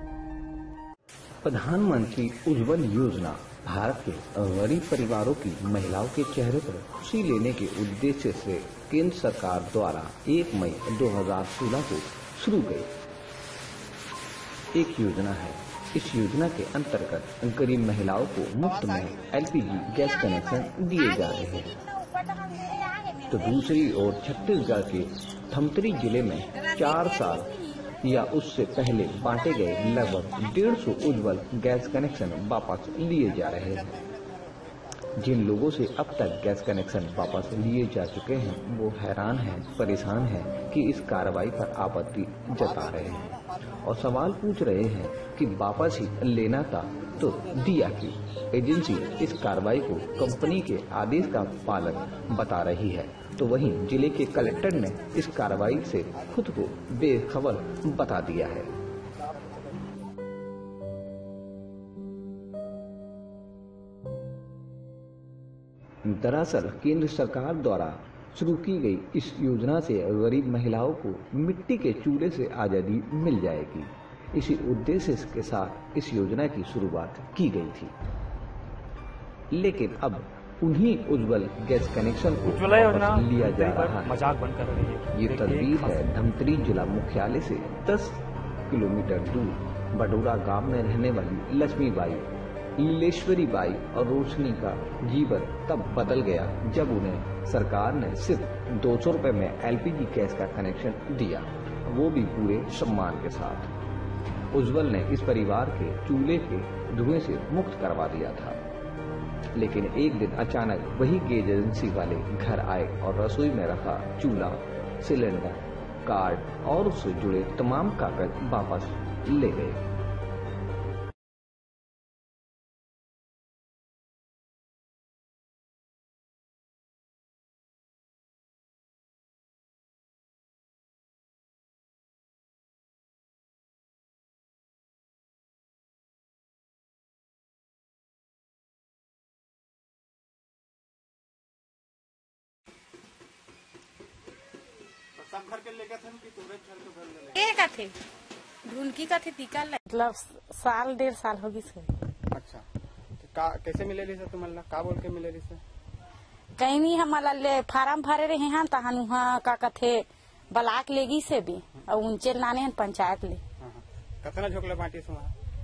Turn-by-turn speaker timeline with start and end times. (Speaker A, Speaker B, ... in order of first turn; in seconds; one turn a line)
Speaker A: 1.4-12.9
Speaker A: 14.7-21.8
Speaker A: 23.3-34.0
Speaker A: 35.2-58.7
Speaker A: 66.0-77.9
Speaker A: 79.5-84.2
Speaker B: 82.5-86.0
Speaker A: 85.1-103.7
Speaker A: 104.5-108.6
Speaker A: 109.5-119.8
Speaker C: 145.2-147.3
Speaker D: 147.3-147.9
Speaker D: 148.7-151.9
Speaker C: 152.3-152.6
Speaker C: 153.2-155.6
Speaker D: 156.6-163.4
Speaker C: 163.6-165.3